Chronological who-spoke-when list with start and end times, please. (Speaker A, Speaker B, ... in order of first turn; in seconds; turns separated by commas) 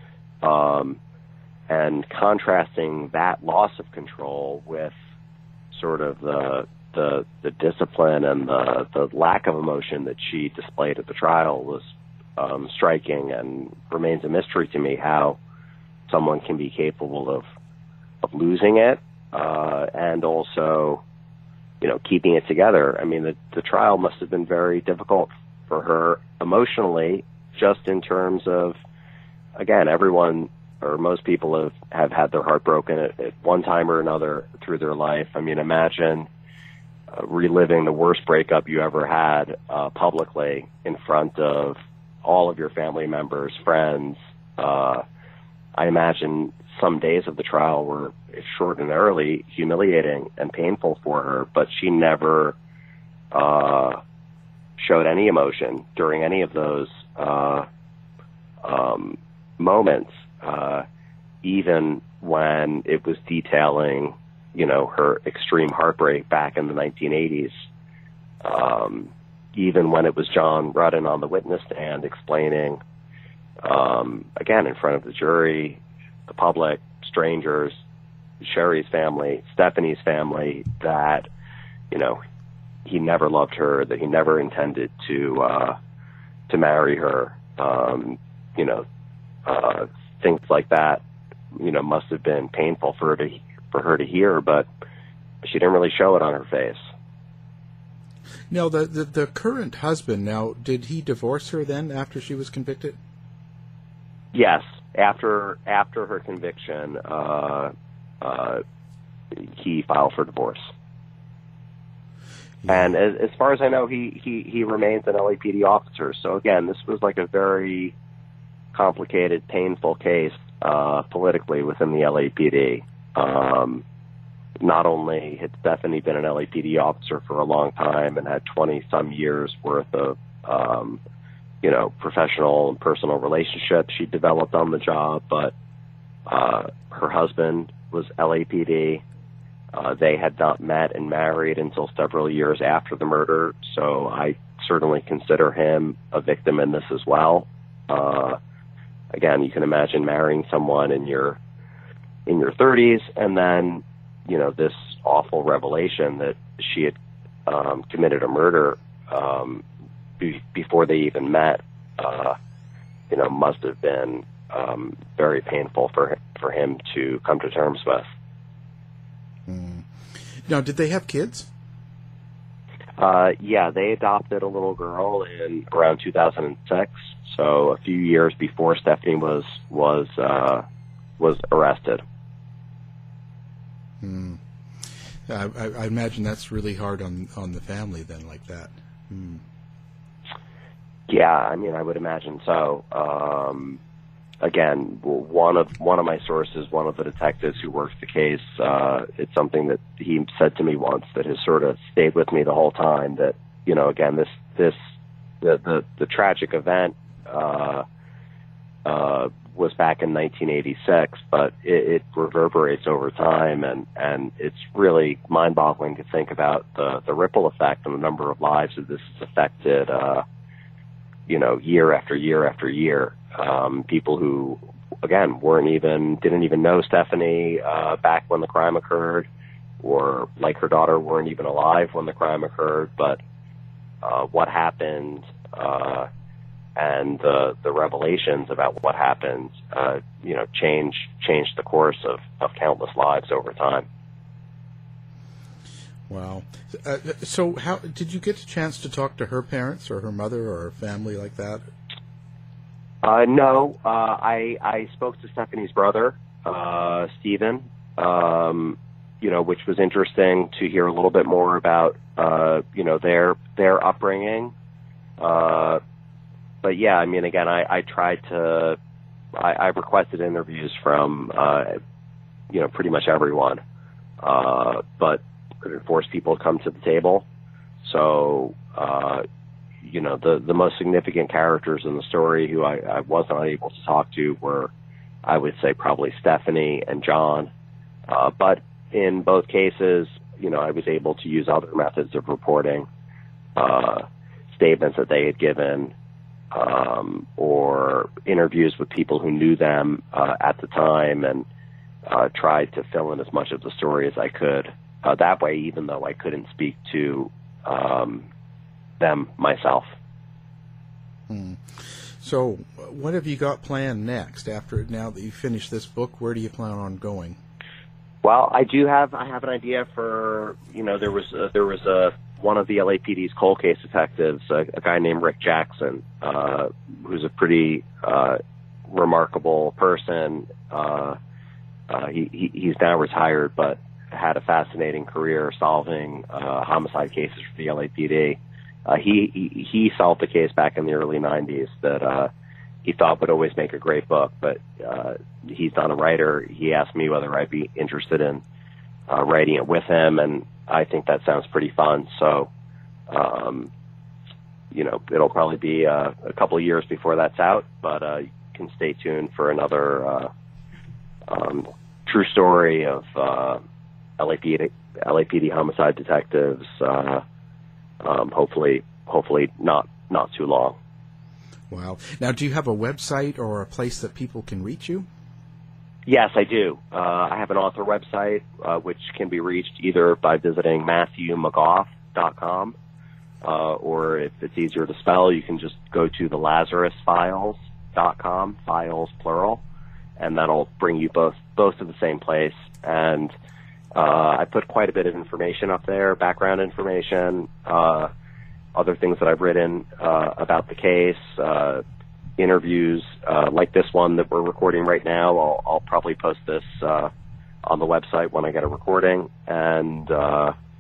Speaker A: 0.4-1.0, Speaker A: 1.7-5.0, Speaker A: 5.7-15.4, Speaker A: 16.1-17.4, Speaker A: 18.2-21.0, Speaker A: 21.8-28.8, Speaker A: 29.6-36.3, Speaker A: 37.1-45.0, Speaker A: 45.8-52.6, Speaker A: 53.3-54.0, Speaker A: 54.8-57.7, Speaker A: 58.6-60.9, Speaker A: 61.4-67.6, Speaker A: 68.4-72.8, Speaker A: 73.6-77.8, Speaker A: 78.4-81.3, Speaker A: 81.9-82.2, Speaker A: 82.8-85.8, Speaker A: 86.5-88.8, Speaker A: 89.5-91.0, Speaker A: 91.5-94.7, Speaker A: 95.4-96.8, Speaker B: 98.5-103.0, Speaker A: 104.3-108.6, Speaker A: 109.3-110.7, Speaker B: 112.6-112.9, Speaker A: 112.7-118.0, Speaker A: 118.7-123.8, Speaker A: 124.6-131.0, Speaker A: 131.6-135.5, Speaker A: 136.3-139.0, Speaker A: 139.7-148.4, Speaker A: 149.1-151.4, Speaker A: 152.3-159.6, Speaker A: 160.2-162.4, Speaker A: 163.1-168.1, Speaker B: 169.5-171.5, Speaker A: 173.0-180.6, Speaker A: 181.2-182.0, Speaker B: 184.0-184.4, Speaker B: 185.3-189.4, Speaker A: 191.1-193.8, Speaker A: 194.4-204.8, Speaker A: 205.4-207.8, Speaker A: 208.8-220.2, Speaker A: 221.3-229.3, Speaker A: 229.8-233.2, Speaker A: 234.0-236.1, Speaker A: 236.8-243.9, Speaker B: 246.1-251.7, Speaker A: 253.0-264.5, Speaker A: 265.2-265.8, Speaker A: 266.6-268.8, Speaker A: 269.4-271.8, Speaker A: 272.5-273.6, Speaker A: 274.2-277.2, Speaker A: 277.8-279.2, Speaker A: 279.8-284.7, Speaker A: 285.2-287.5, Speaker A: 288.1-292.9, Speaker A: 293.6-295.9, Speaker A: 296.5-301.5, Speaker A: 302.1-308.3, Speaker A: 309.0-309.9, Speaker B: 311.3-317.4, Speaker A: 318.2-331.2, Speaker A: 331.9-342.3, Speaker A: 342.8-348.4, Speaker A: 349.1-352.5, Speaker A: 353.1-353.7, Speaker A: 354.7-360.3, Speaker A: 361.3-363.6, Speaker A: 364.2-367.2, Speaker A: 368.0-370.8, Speaker B: 371.7-375.1, Speaker A: 376.1-382.8, Speaker A: 383.4-389.6, Speaker A: 390.2-393.3, Speaker A: 393.9-398.1, Speaker A: 398.8-401.8, Speaker A: 402.4-407.1, Speaker A: 407.6-410.5